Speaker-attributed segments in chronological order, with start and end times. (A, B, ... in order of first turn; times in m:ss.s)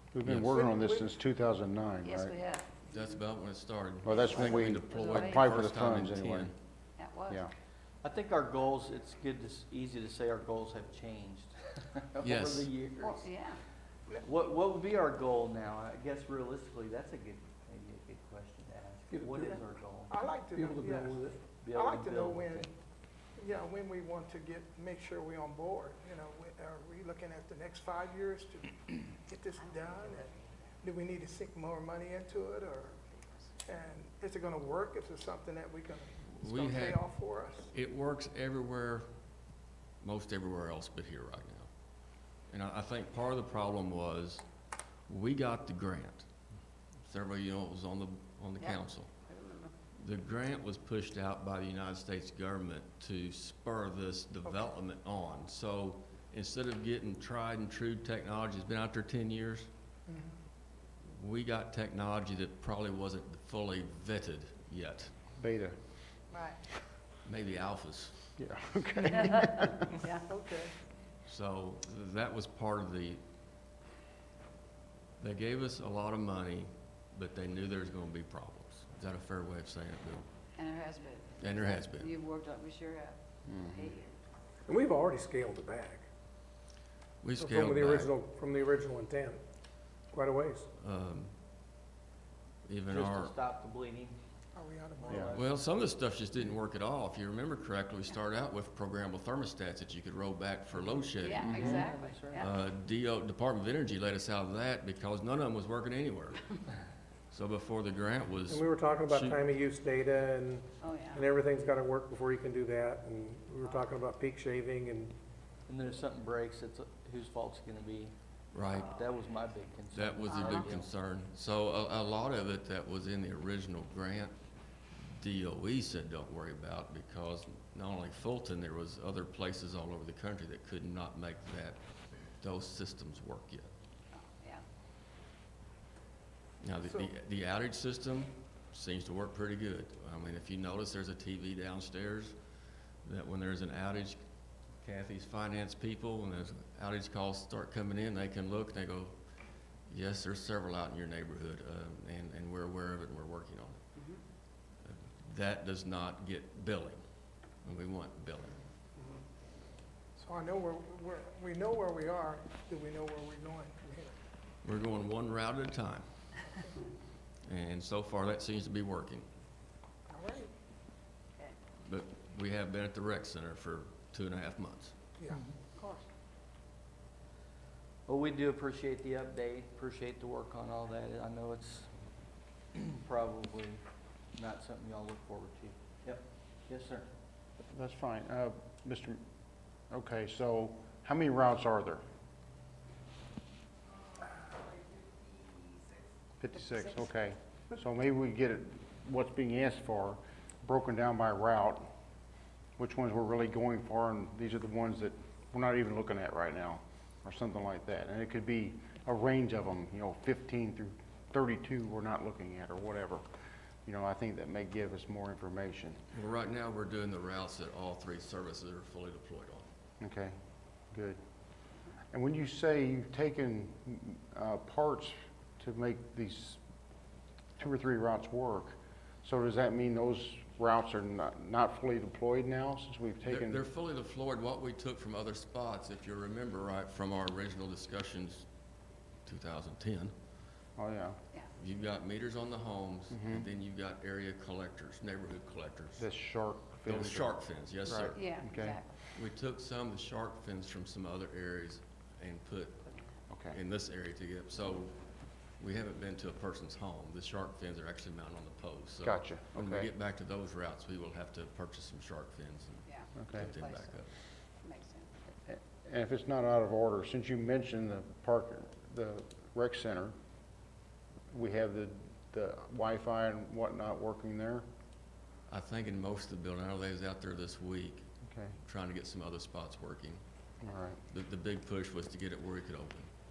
0:00.1-0:02.4 A
0:00.2-0:00.6 B
0:00.5-0:01.1 C
0:02.0-0:02.8 D
0:02.9-0:06.5 B
0:04.0-0:06.5 A
0:04.4-0:05.5 D
0:07.0-0:07.5 D
0:08.0-0:13.3 E
0:12.2-0:12.7 B
0:13.1-0:13.6 D
0:14.2-0:20.1 E
0:19.4-0:22.7 C
0:20.6-0:21.4 F
0:21.6-0:22.7 E
0:23.4-0:32.9 C
0:29.6-0:30.3 D
0:33.6-0:37.7 C
0:36.2-0:37.1 B
0:37.7-0:39.1 B
0:40.0-0:41.7 B
0:42.5-0:44.4 B
0:45.1-0:46.3 B
0:47.0-0:49.1 B
0:48.6-0:49.7 D
0:50.0-0:59.7 B
0:54.4-0:54.8 C
1:00.1-1:00.4 C
1:01.1-1:05.1 B
1:05.4-1:05.9 A
1:07.2-1:08.4 B
1:08.4-1:09.9 A
1:09.1-1:10.3 D
1:10.3-1:10.7 C
1:11.3-1:13.2 B
1:15.2-1:20.3 B
1:20.6-1:24.2 D
1:21.4-1:22.2 B
1:23.5-1:24.0 A
1:24.7-1:26.0 F
1:27.2-1:28.2 B
1:27.4-1:29.4 F
1:30.1-1:30.7 F
1:30.8-1:31.3 B
1:32.6-1:33.3 B
1:32.9-1:34.2 E
1:34.5-1:35.4 C
1:35.0-1:35.6 E
1:35.3-1:41.6 B
1:40.8-1:42.6 E
1:41.2-1:42.5 D
1:41.4-1:41.9 A
1:42.4-1:46.6 B
1:47.3-1:49.4 B
1:48.5-1:55.1 F
1:50.8-1:51.3 D
1:53.6-1:53.9 D
1:55.7-1:58.2 E
1:58.5-1:59.0 B
1:58.7-2:00.9 E
1:59.9-2:04.4 B
2:00.3-2:00.7 D
2:05.0-2:13.7 B
2:14.1-2:14.6 D
2:16.6-2:22.3 B
2:16.8-2:17.1 C
2:23.0-2:24.2 B
2:24.8-2:29.2 B
2:29.9-2:33.8 B
2:34.8-2:37.0 B
2:37.6-2:38.6 B
2:40.2-2:44.2 C
2:44.6-2:46.1 B
2:47.4-2:49.3 B
2:50.1-2:50.5 C
2:51.8-2:55.0 B
2:55.8-2:56.1 D
2:58.1-3:01.9 E
3:02.7-3:03.8 E
3:04.3-3:07.1 E
3:07.7-3:09.2 A
3:09.9-3:12.0 A
3:16.4-3:21.9 A
3:22.8-3:33.2 A
3:33.8-3:36.0 A
3:36.1-3:39.7 B
3:40.0-3:40.4 A
3:40.9-3:41.2 A
3:42.1-3:46.6 A
3:47.6-3:53.6 A
3:53.2-3:58.5 B
3:59.2-4:00.1 B
4:00.8-4:01.2 A
4:01.6-4:06.1 B
4:03.1-4:03.5 A
4:06.0-4:08.8 A
4:06.8-4:08.4 B
4:08.1-4:09.0 D
4:09.1-4:12.9 B
4:13.3-4:13.6 A
4:13.5-4:15.0 B
4:15.5-4:24.2 B
4:19.0-4:19.9 A
4:22.8-4:24.0 D
4:23.2-4:23.5 A
4:24.6-4:25.1 D
4:25.5-4:30.1 A
4:31.3-4:34.6 A
4:35.5-4:38.1 B
4:38.2-4:38.6 A
4:38.6-4:40.2 B
4:40.6-4:41.0 A
4:41.1-4:43.1 B